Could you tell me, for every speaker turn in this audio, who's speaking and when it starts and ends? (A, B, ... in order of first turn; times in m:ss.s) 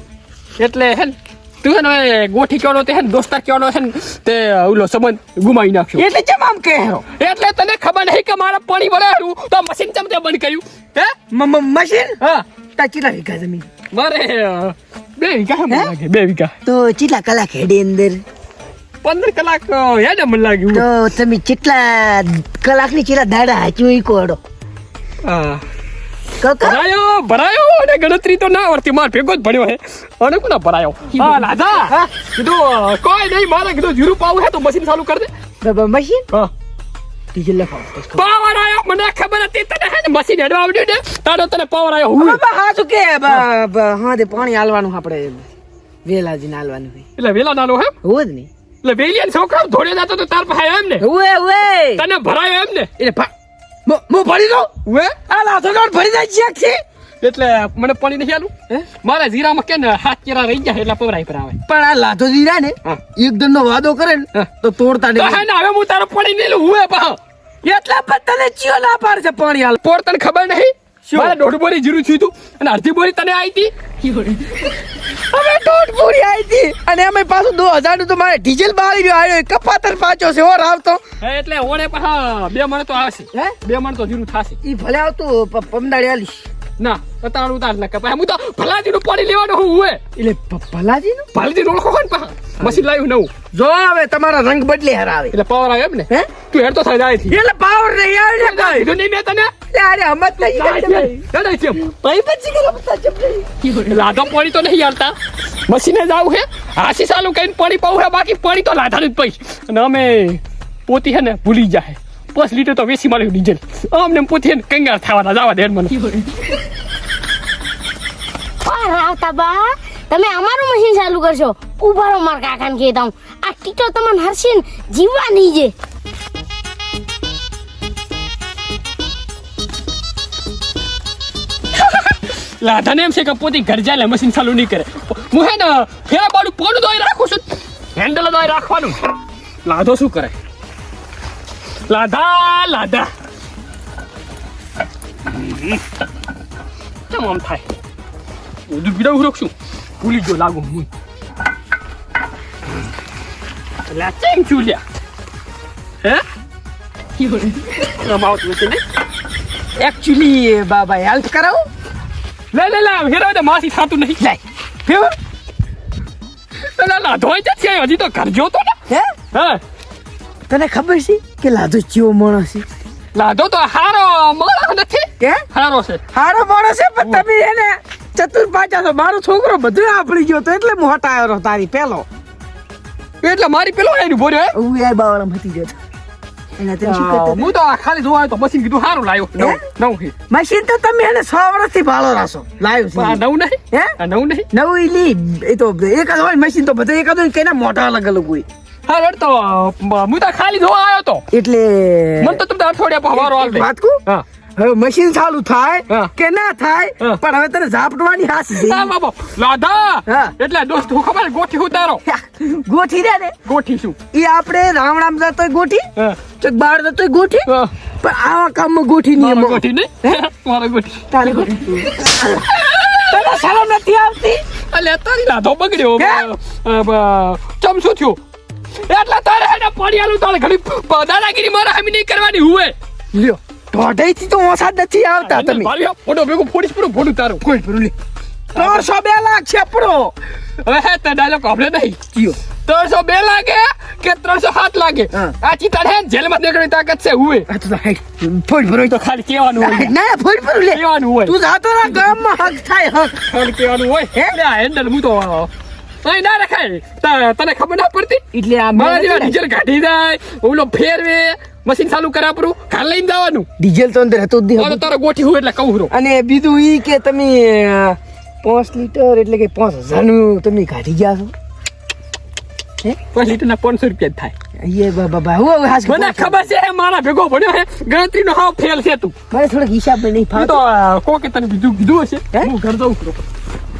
0:00.6-0:06.0 A
0:05.9-0:07.0 B
0:07.2-0:11.1 A
0:11.3-0:12.2 B
0:12.8-0:13.7 B
0:13.9-0:16.5 A
0:15.7-0:15.9 B
0:16.6-0:18.2 B
0:19.0-0:20.9 A
0:20.7-0:24.4 B
0:25.2-0:25.6 A
0:26.4-0:26.8 B
0:26.6-0:35.3 A
0:35.6-0:36.3 B
0:37.3-0:38.3 B
0:38.1-0:42.4 A
0:42.2-0:45.5 B
0:46.0-0:47.1 B
0:47.2-0:47.9 A
0:48.0-0:48.5 B
0:48.8-0:51.1 A
0:51.0-0:52.0 B
0:52.0-0:52.9 A
0:53.0-0:53.3 B
0:53.8-0:54.7 B
0:54.8-0:55.2 A
0:55.3-0:56.8 B
0:57.2-1:01.6 A
1:01.6-1:05.4 B
1:05.2-1:07.2 A
1:07.6-1:09.8 B
1:09.8-1:13.7 A
1:11.0-1:11.4 B
1:15.1-1:21.0 B
1:21.2-1:24.6 A
1:24.6-1:26.5 B
1:26.8-1:30.0 A
1:30.2-1:31.3 B
1:31.3-1:33.3 A
1:33.5-1:35.3 B
1:35.3-1:37.4 A
1:37.3-1:38.9 B
1:38.4-1:39.5 A
1:39.7-1:41.2 B
1:40.4-1:41.8 A
1:41.8-1:43.6 B
1:43.7-1:45.1 A
1:45.6-1:56.1 A
1:56.1-1:56.5 C
1:58.6-2:05.7 C
2:11.7-2:17.4 A
2:17.9-2:19.1 A
2:19.6-2:20.3 A
2:21.9-2:23.1 A
2:25.3-2:25.8 A
2:27.1-2:27.7 A
2:28.7-2:30.9 A
2:33.8-2:34.8 A
2:37.3-2:38.8 A
2:39.8-2:41.7 B
2:42.5-2:44.2 A
2:44.2-2:45.1 B
2:46.6-2:48.8 A
2:48.9-2:49.1 B
2:49.3-2:49.6 A
2:50.5-2:52.6 B
2:53.1-2:56.0 A
2:56.1-3:02.0 B
3:03.2-3:04.5 A
3:04.5-3:05.8 B
3:06.6-3:07.5 B
3:06.8-3:10.1 A
3:09.4-3:09.6 B
3:10.3-3:13.9 B
3:12.9-3:14.5 A
3:14.5-3:18.4 B
3:18.9-3:21.2 A
3:21.3-3:22.4 B
3:22.2-3:24.2 A
3:23.1-3:24.0 B
3:24.6-3:28.9 B
3:28.6-3:32.0 A
3:30.1-3:30.3 B
3:32.0-3:33.3 B
3:33.4-3:34.0 A
3:34.1-3:35.9 B
3:36.4-3:37.5 B
3:38.0-3:39.6 B
3:39.2-3:41.2 A
3:41.1-3:42.5 B
3:42.2-3:43.4 A
3:43.1-3:44.4 B
3:44.7-3:48.2 A
3:46.0-3:46.3 B
3:48.8-3:52.7 A
3:53.1-3:55.7 B
3:55.2-3:57.4 A
3:57.4-3:57.9 B
3:58.5-4:00.1 B
3:58.5-3:58.8 A
4:00.6-4:02.0 A
4:02.1-4:02.4 B
4:02.6-4:07.5 A
4:07.5-4:09.0 B
4:08.8-4:09.9 A
4:09.6-4:13.2 B
4:10.7-4:11.3 A
4:13.2-4:15.5 A
4:16.0-4:18.2 A
4:18.3-4:19.4 B
4:18.7-4:23.5 A
4:23.6-4:24.9 B
4:24.6-4:25.9 A
4:25.9-4:31.3 B
4:33.1-4:34.3 A
4:34.6-4:36.5 B
4:35.8-4:39.1 A
4:39.3-4:40.6 B
4:40.3-4:43.2 A